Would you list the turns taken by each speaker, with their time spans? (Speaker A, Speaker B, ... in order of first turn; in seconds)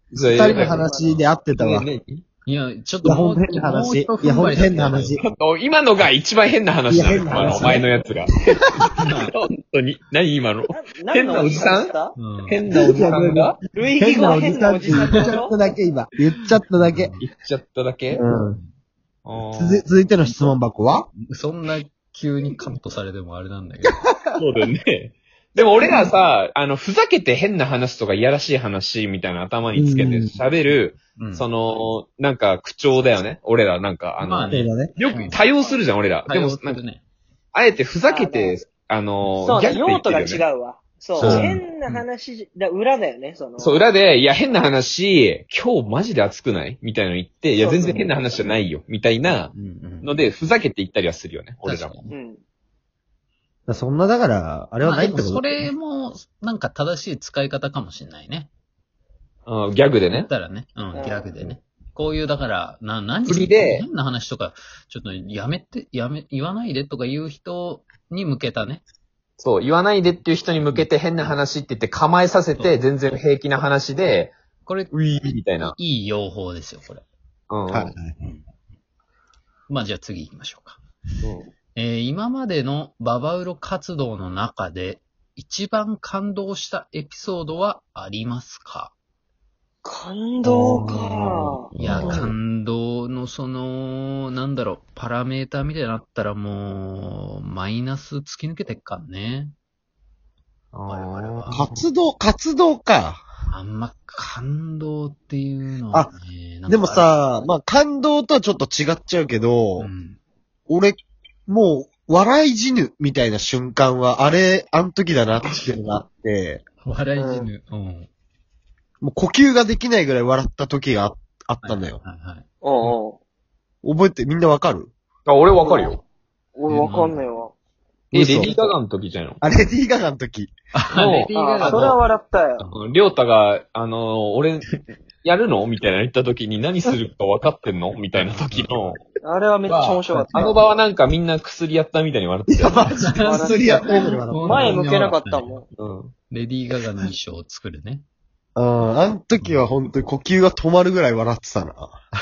Speaker A: 0.1-0.9, 1.5-2.2, 5.2-11.9, 12.5-13.6, 17.2-18.2, 19.2-19.8, 24.4-36.8, 37.5-40.4, 41.2-41.5, 43.6-52.0, 59.5-60.3, 63.3-63.9, 69.4-74.3, 74.9-75.8, 77.5-77.9, 81.2-81.5, 90.5-92.2, 100.7-101.8, 125.3-126.0, 128.1-129.4, 130.9-132.0, 132.7-134.7, 135.2-139.0, 139.7-142.9, 145.8-146.1
Speaker B: 0.2-1.9, 3.0-5.2, 6.9-7.9, 12.7-17.1, 18.1-18.6, 19.5-21.1, 29.8-30.4, 34.5-34.9, 41.2-41.6, 53.7-55.5, 77.7-78.2, 91.8-92.3, 101.5-103.2, 106.7-109.9, 110.7-116.6, 119.0-122.0, 123.8-124.9, 128.1-128.7, 129.4-130.5, 142.5-144.8, 148.6-152.1
Speaker C: 0.3-1.1, 10.7-12.2, 13.7-15.5, 38.0-38.6, 39.4-43.8, 47.6-48.4, 52.1-52.4, 60.9-61.3, 89.8-92.1, 117.2-117.5, 122.6-123.2, 125.6-126.0, 126.6-127.5, 131.3-132.7, 139.2-140.6, 143.1-145.7
Speaker D: 2.5-5.2, 7.4-7.8, 9.0-9.3, 12.2-12.6, 14.9-15.3, 16.8-17.2, 20.3-20.5, 21.3-24.0, 31.2-31.5, 34.2-35.4, 36.3-37.0, 41.2-42.0, 49.5-50.1, 51.6-52.1, 54.8-58.5, 60.1-68.8, 74.7-74.9, 75.6-77.0, 79.7-80.8, 81.8-88.9, 91.7-99.5, 100.9-101.6, 103.5-107.2, 109.8-110.2, 116.8-118.1, 121.6-122.9, 126.7-127.2, 130.8-132.0, 138.2-139.0, 140.1-140.5, 142.8-145.6, 146.3-148.1